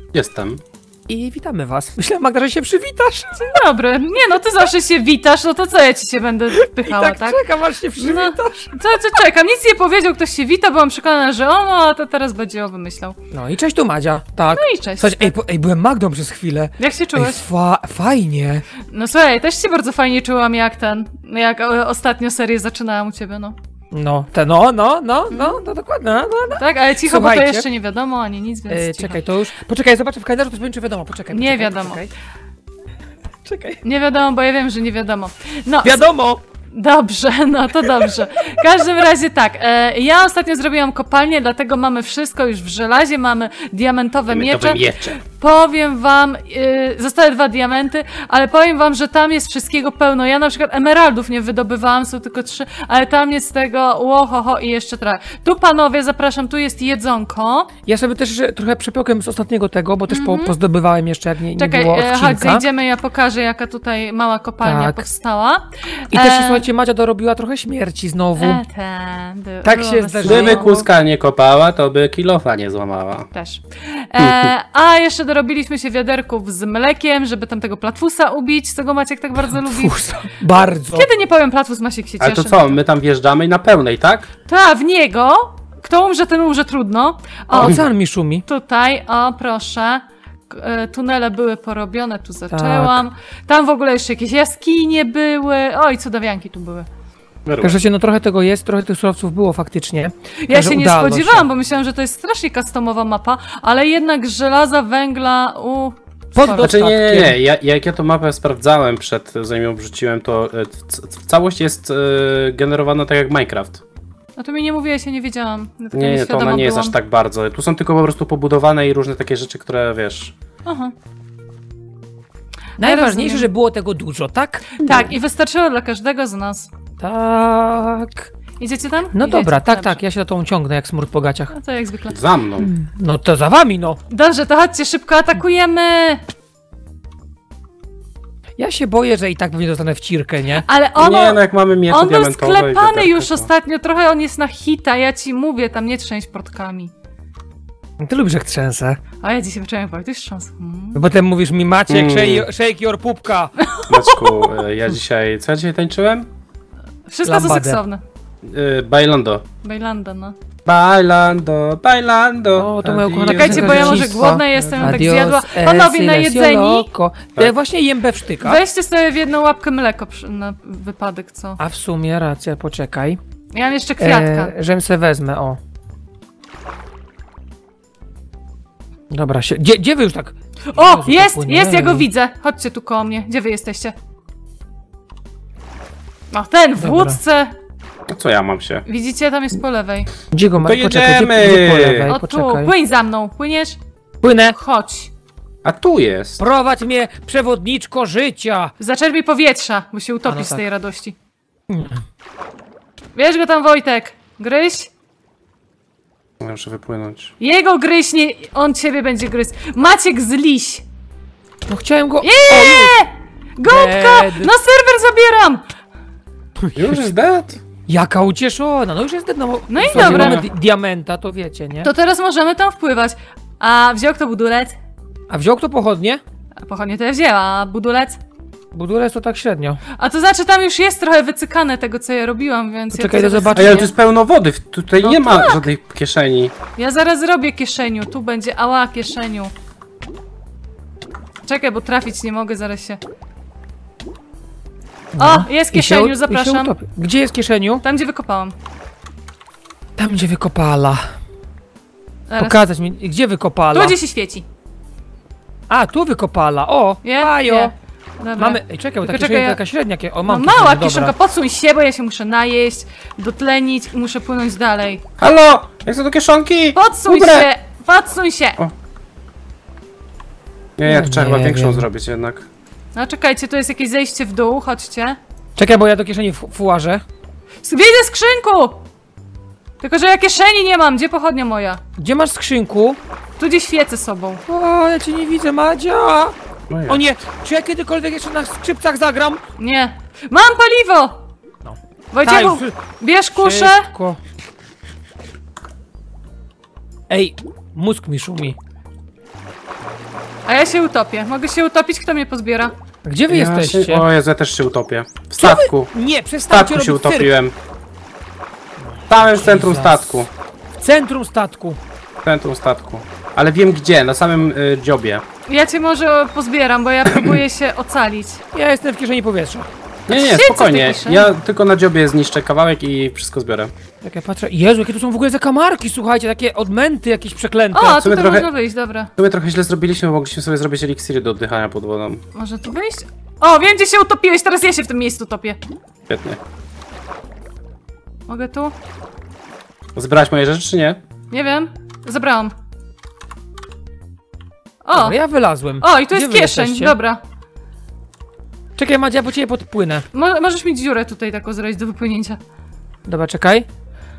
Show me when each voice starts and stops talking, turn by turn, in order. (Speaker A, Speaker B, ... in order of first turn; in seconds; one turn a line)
Speaker A: 0.1-0.6
Speaker B: 1.1-3.6
Speaker C: 3.4-7.4
Speaker B: 6.5-8.8
Speaker C: 8.0-13.2
Speaker B: 13.3-18.6
Speaker C: 14.5-15.3
Speaker C: 16.8-17.4
Speaker C: 18.9-23.6
Speaker B: 23.9-27.6
Speaker C: 25.3-25.6
Speaker C: 26.6-29.2
Speaker B: 28.7-32.1
Speaker C: 31.3-32.0
Speaker B: 33.4-33.8
Speaker C: 33.8-36.1
Speaker B: 35.8-36.4
Speaker C: 36.7-57.7
Speaker A: 44.3-45.2
Speaker B: 57.9-62.6
Speaker C: 60.1-60.5
Speaker C: 61.6-66.7
Speaker B: 64.6-65.0
Speaker B: 66.1-68.6
Speaker C: 68.4-70.7
Speaker B: 69.6-70.8
Speaker A: 70.2-73.3
Speaker C: 73.3-80.0
Speaker A: 74.2-74.5
Speaker B: 79.5-81.1
Speaker C: 80.9-82.7
Speaker A: 82.2-84.3
Speaker C: 84.5-87.8
Speaker B: 87.5-88.4
Speaker C: 88.5-96.9
Speaker B: 92.5-93.0
Speaker A: 97.5-97.8
Speaker B: 97.6-101.5
Speaker C: 100.4-106.7
Speaker B: 106.3-107.4
Speaker A: 106.6-113.8
Speaker C: 114.4-116.9
Speaker A: 115.9-120.3
Speaker C: 120.7-120.9
Speaker B: 122.8-124.7
Speaker C: 122.8-123.5
Speaker C: 124.7-126.7
Speaker A: 124.8-125.2
Speaker B: 127.0-128.3
Speaker C: 128.6-130.0
Speaker B: 129.1-131.5
Speaker C: 131.5-132.2
Speaker A: 132.1-132.7
Speaker B: 132.6-134.0
Speaker C: 134.1-136.2
Speaker B: 138.6-140.6
Speaker C: 140.5-146.9
Speaker A: 141.0-143.5
Speaker B: 148.0-149.0
Speaker C: 149.2-151.0
Speaker B: 150.9-153.5
Speaker A: 151.9-152.5
Speaker C: 153.6-154.5
Speaker A: 153.8-156.3
Speaker C: 157.1-158.0
Speaker B: 157.2-157.8
Speaker A: 158.4-159.4
Speaker C: 159.6-160.3
Speaker A: 160.6-165.0
Speaker B: 162.5-168.6
Speaker C: 163.3-166.9
Speaker C: 168.4-171.6
Speaker B: 171.6-173.2
Speaker C: 173.5-174.5
Speaker B: 174.0-175.6
Speaker B: 179.1-182.1
Speaker C: 180.7-183.9
Speaker C: 186.3-187.6
Speaker B: 186.8-187.2
Speaker A: 188.1-188.8
Speaker C: 188.9-190.1
Speaker B: 190.3-192.7
Speaker A: 190.6-192.1
Speaker C: 192.1-193.8
Speaker B: 194.2-194.6
Speaker C: 194.5-195.1
Speaker A: 195.6-196.4
Speaker B: 196.4-198.7
Speaker C: 198.8-201.1
Speaker B: 200.2-200.6
Speaker B: 201.7-202.0
Speaker C: 203.1-204.9
Speaker A: 206.4-207.3
Speaker C: 207.4-210.8
Speaker B: 211.7-212.9
Speaker C: 212.2-215.6
Speaker B: 213.6-214.5
Speaker B: 216.6-217.0
Speaker A: 216.8-217.6
Speaker B: 217.9-221.9
Speaker C: 219.7-220.4
Speaker A: 219.9-220.4
Speaker C: 221.8-224.8
Speaker B: 225.3-226.2
Speaker C: 226.6-228.2
Speaker B: 228.7-229.8
Speaker C: 229.9-233.9
Speaker B: 232.9-233.9
Speaker A: 233.5-236.5
Speaker C: 235.0-235.6
Speaker C: 236.8-239.5
Speaker C: 241.4-243.0
Speaker B: 245.2-247.8
Speaker C: 245.2-246.7
Speaker C: 247.8-248.5
Speaker B: 250.0-251.1
Speaker C: 252.3-252.6
Speaker B: 252.4-254.0
Speaker C: 253.7-254.4
Speaker B: 255.7-257.7
Speaker C: 257.0-259.6
Speaker B: 258.4-261.1
Speaker C: 260.2-265.0
Speaker A: 265.2-267.4
Speaker C: 266.7-268.6
Speaker B: 267.1-267.4
Speaker A: 270.8-272.5
Speaker B: 270.9-271.9
Speaker C: 272.9-275.2
Speaker B: 275.6-277.0
Speaker C: 277.6-278.8
Speaker C: 279.8-281.8
Speaker B: 282.0-283.0
Speaker C: 283.4-284.4
Speaker B: 284.4-286.3
Speaker A: 286.7-287.0
Speaker B: 286.9-289.4
Speaker C: 289.6-291.2
Speaker B: 291.6-292.8
Speaker C: 292.1-293.9
Speaker B: 293.3-294.2
Speaker B: 297.1-298.6
Speaker C: 300.4-302.7
Speaker B: 303.0-304.1
Speaker A: 303.3-305.9
Speaker B: 305.4-307.3
Speaker A: 306.5-307.5
Speaker B: 308.9-311.8
Speaker A: 309.1-310.3
Speaker A: 312.2-315.2
Speaker C: 315.5-318.4
Speaker A: 317.1-317.4
Speaker B: 318.5-319.7
Speaker A: 320.1-323.7
Speaker C: 320.1-321.3
Speaker B: 324.0-328.0
Speaker C: 327.7-329.1
Speaker A: 328.0-328.5
Speaker A: 329.2-332.2
Speaker C: 332.3-335.6
Speaker A: 336.1-336.4
Speaker C: 338.3-338.7
Speaker A: 339.9-341.0
Speaker C: 341.3-342.5
Speaker C: 344.8-345.2
Speaker B: 344.9-346.9
Speaker C: 345.8-347.2
Speaker B: 348.8-350.0
Speaker C: 350.1-352.4
Speaker B: 353.1-353.7